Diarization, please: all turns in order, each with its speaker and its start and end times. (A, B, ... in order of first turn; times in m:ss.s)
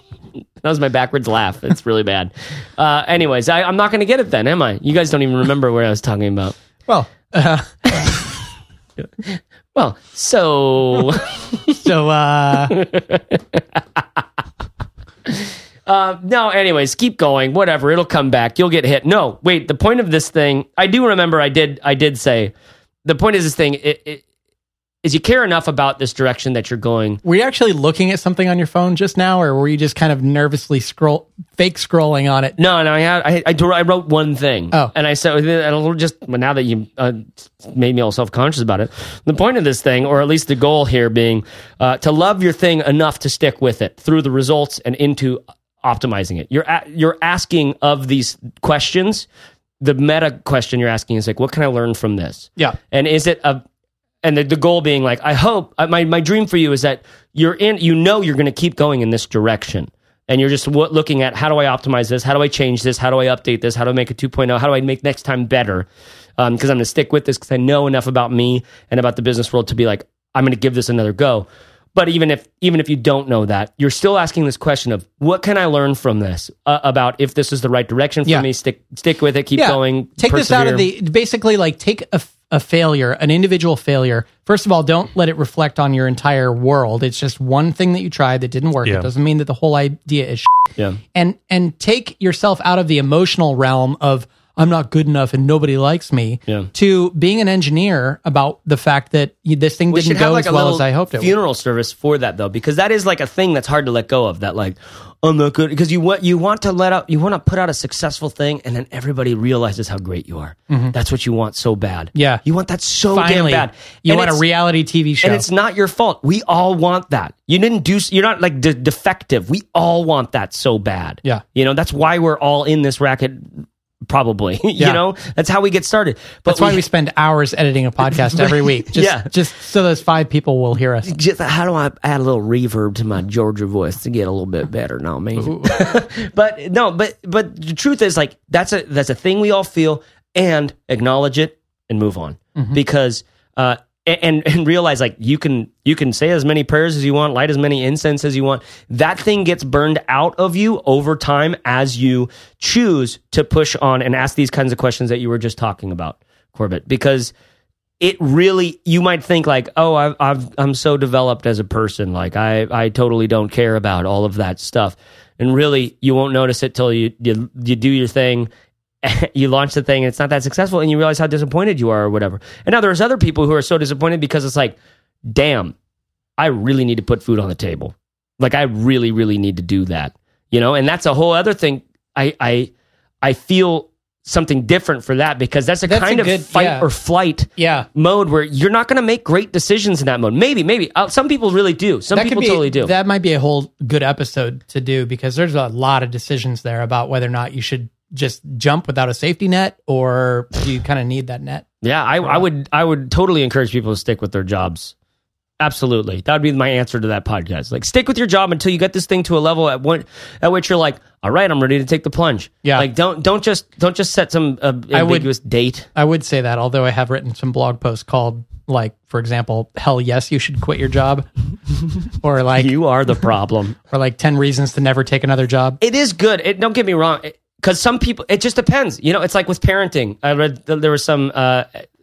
0:00.6-0:06.5 A
0:06.9-0:08.2 B
0:09.0-0:11.8 A
0:11.8-0:12.7 B
0:12.7-0:14.2 A
0:15.3-0:24.2 A
0:25.0-0:27.2 A
0:27.2-0:32.5 B
0:32.6-0:49.3 A
0:49.8-0:53.6 A
0:54.2-1:05.9 A
1:06.4-1:20.9 A
1:19.6-1:41.3 B
1:39.9-1:54.4 A
1:52.1-1:52.4 B
1:53.1-1:55.4 B
1:55.2-2:06.8 A
2:06.4-2:11.1 B
2:08.3-2:09.3 A
2:11.0-2:37.3 A
2:15.4-2:15.8 B
2:38.0-2:48.5 A
2:49.0-2:54.8 A
2:55.3-2:55.7 A
2:56.4-3:02.7 A
3:03.2-3:12.9 A
3:05.9-3:06.9 B
3:07.6-3:07.9 B
3:12.1-3:21.6 B
3:21.8-3:24.9 A
3:25.6-3:35.9 A
3:34.9-3:35.3 B
3:35.9-3:41.3 B
3:42.1-3:42.7 B
3:42.6-3:43.8 A
3:43.9-3:45.8 B
3:45.8-3:51.8 A